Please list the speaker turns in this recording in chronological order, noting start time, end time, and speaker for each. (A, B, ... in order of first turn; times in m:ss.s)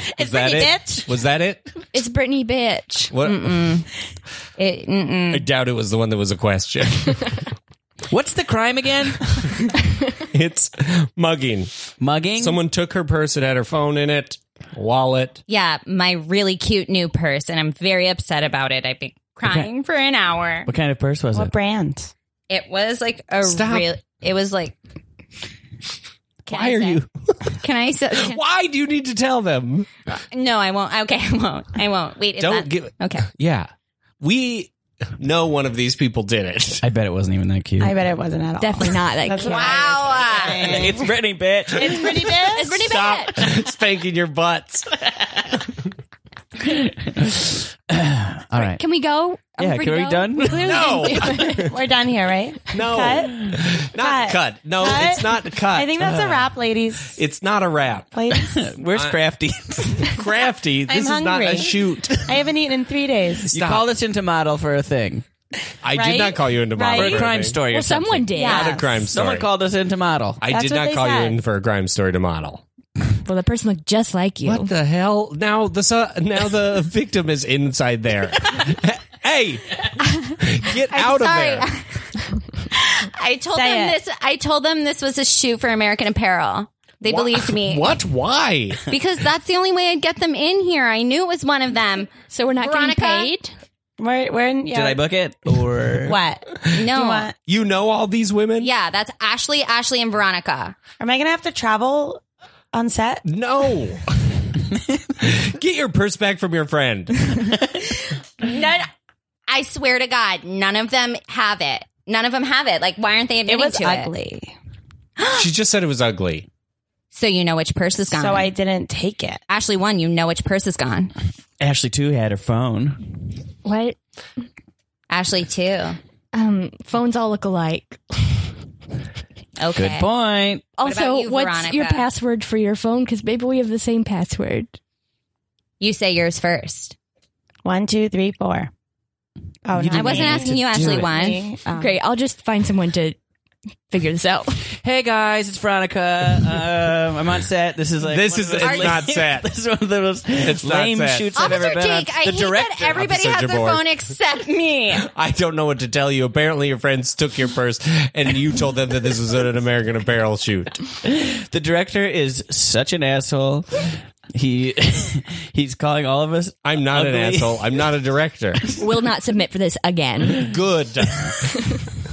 0:00.2-0:01.8 A
0:00.2-0:01.1 B
0:01.9-0:03.1 C
0:03.1-0:03.8 A
0:03.2-0:03.9 D
0:04.6-0:05.5 D
0:05.3-0:07.4 A
0:08.1-0:09.5 E
0:10.3-0:11.7 A
0:12.0-0:12.6 E
0:12.4-0:15.4 A
0:15.5-0:20.7 D
0:20.7-0:21.5 E
0:21.3-0:22.1 B
0:22.5-0:24.8 D
0:23.4-0:23.9 A
0:26.5-0:28.4 D
0:26.5-0:27.4 A
0:28.1-0:29.9 A
0:30.1-0:33.3 D
0:32.4-0:36.8 A
0:36.8-0:38.0 E
0:37.8-0:41.2 B
0:38.6-0:39.9 C
0:39.4-0:40.8 D
0:40.6-0:42.3 E
0:41.7-0:42.9 B
0:42.5-0:43.5 C
0:42.8-0:44.9 A
0:46.6-0:48.8 E
0:48.6-0:51.7 C
0:49.6-0:51.0 E
0:50.6-0:51.7 A
0:51.7-0:57.2 B
0:52.7-0:56.2 A
0:56.0-0:56.4 E
0:57.1-0:58.1 A
0:58.1-0:58.7 B
0:58.4-1:00.2 E
0:58.9-0:59.2 A
1:00.0-1:02.4 A
1:00.9-1:03.5 B
1:03.5-1:03.9 A
1:03.5-1:05.2 E
1:05.8-1:07.6 A
1:05.9-1:07.5 B
1:06.9-1:10.4 E
1:07.6-1:08.8 C
1:08.3-1:08.9 B
1:08.4-1:09.5 A
1:10.4-1:12.6 A
1:10.5-1:11.4 B
1:13.2-1:14.7 C
1:14.4-1:21.7 A
1:20.0-1:22.2 D
1:22.7-1:27.9 D
1:23.5-1:24.0 B
1:27.1-1:28.8 A
1:28.9-1:33.3 D
1:32.3-1:33.6 C
1:34.0-1:35.0 B
1:34.7-1:36.2 E
1:36.0-1:37.3 B
1:36.6-1:37.3 D
1:37.5-1:38.7 A
1:38.6-1:40.8 D
1:41.0-1:42.2 B
1:42.7-1:43.2 B
1:43.3-1:44.3 A
1:45.2-1:47.5 A
1:48.0-1:48.9 D
1:49.5-1:54.1 D
1:53.5-1:54.6 B
1:55.2-1:55.5 D
1:55.3-1:56.5 A
1:57.1-1:58.5 D
1:58.1-1:59.4 B
1:59.5-2:01.1 D
2:01.6-2:03.1 E
2:03.6-2:04.0 C
2:05.1-2:06.0 D
2:06.3-2:08.5 C
2:09.6-2:10.1 D
2:09.8-2:10.6 E
2:10.8-2:14.8 C
2:10.8-2:12.1 D
2:15.8-2:17.0 D
2:17.6-2:18.7 B
2:19.6-2:22.0 B
2:19.7-2:21.3 E
2:19.9-2:21.4 D
2:21.8-2:23.2 C
2:23.9-2:24.7 C
2:24.7-2:32.6 E
2:28.0-2:29.5 A
2:28.6-2:29.0 D
2:30.3-2:31.3 A
2:31.4-2:35.1 D
2:32.4-2:33.9 A
2:35.0-2:40.8 A
2:41.0-2:47.7 E
2:46.6-2:48.8 A
2:48.8-2:50.5 C
2:50.4-2:51.6 A
2:51.5-2:51.8 C